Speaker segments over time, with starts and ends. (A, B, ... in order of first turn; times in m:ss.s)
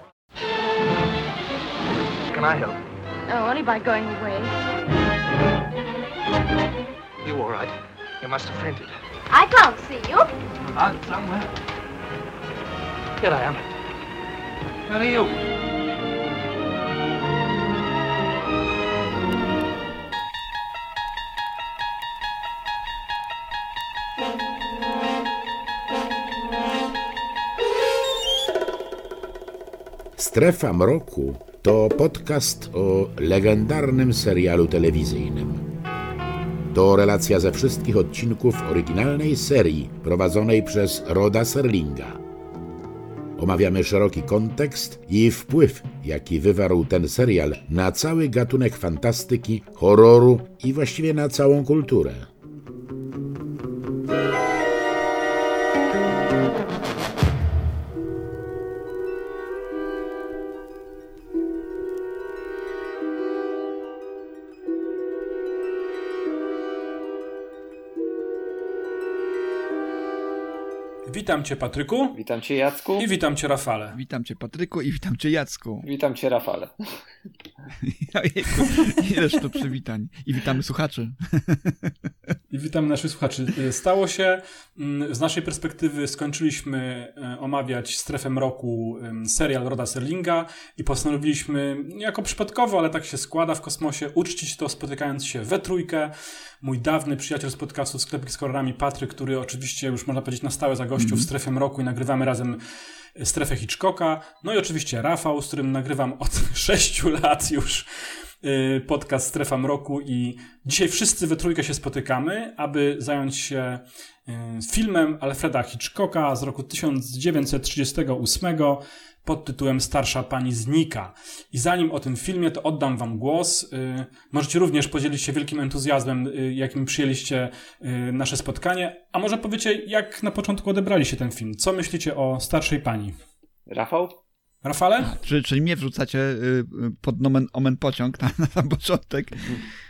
0:02.2-0:02.8 A
0:03.3-0:04.6 B
0:07.2-0:08.9 A
0:09.3-0:10.3 B
0:10.7-0:11.5 A
0:13.2-0:13.6 A
0:14.9-0:15.4 A
0:30.2-0:35.6 C
0:36.7-0:42.2 C
0:43.4-0:52.3 C
1:11.1-1:12.2 D
1:12.1-1:13.1 E
1:13.0-1:14.0 D
1:13.9-1:15.8 F
1:15.8-1:16.7 E
1:17.8-1:22.3 F
1:22.5-1:42.6 D
1:41.0-1:41.3 F
1:43.2-2:13.2 D
2:13.7-2:14.2 E
2:14.6-2:15.1 D
2:15.0-2:19.6 F